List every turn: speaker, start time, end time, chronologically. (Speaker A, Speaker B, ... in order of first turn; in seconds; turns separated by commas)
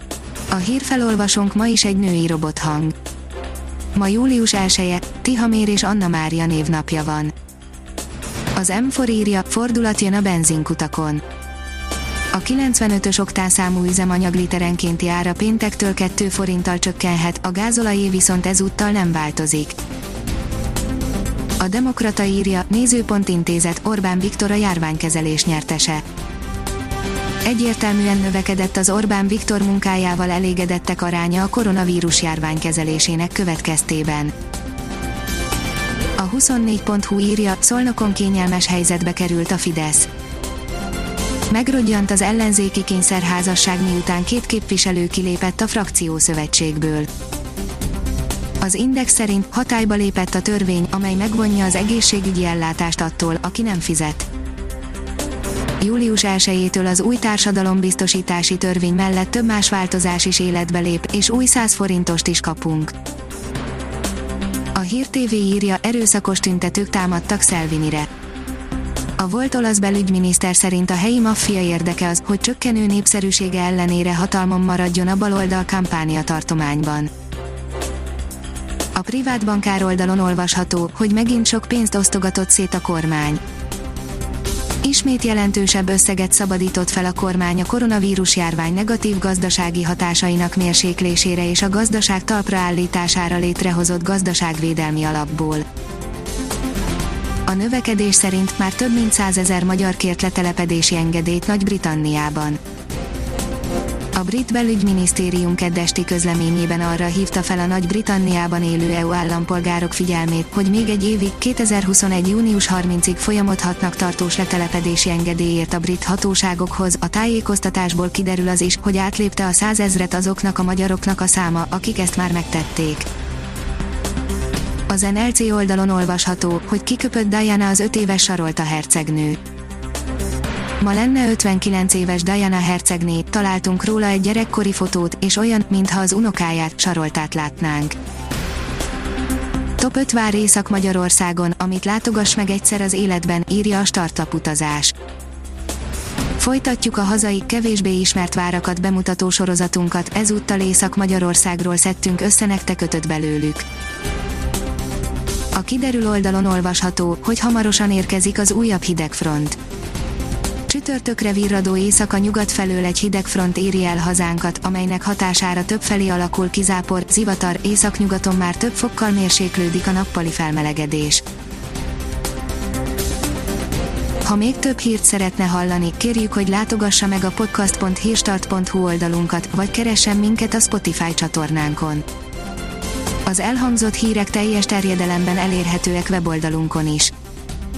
Speaker A: 0.5-2.9, Speaker A: 3.9-7.3, Speaker A: 8.6-11.2, Speaker A: 12.3-19.8, Speaker A: 21.6-26.0, Speaker A: 27.4-34.3, Speaker A: 36.2-40.1, Speaker A: 41.5-47.1, Speaker A: 48.6-54.3, Speaker A: 55.8-62.9, Speaker A: 64.7-68.1, Speaker A: 69.2-77.1, Speaker A: 78.9-83.4, Speaker A: 84.8-95.7, Speaker A: 97.5-102.6, Speaker A: 104.1-123.1, Speaker A: 124.9-129.4, Speaker A: 130.8-138.0, Speaker A: 139.8-144.9, Speaker A: 146.4-153.6, Speaker A: 155.5-159.6, Speaker A: 160.7-171.2, Speaker A: 174.2-182.0, Speaker A: 183.2-187.1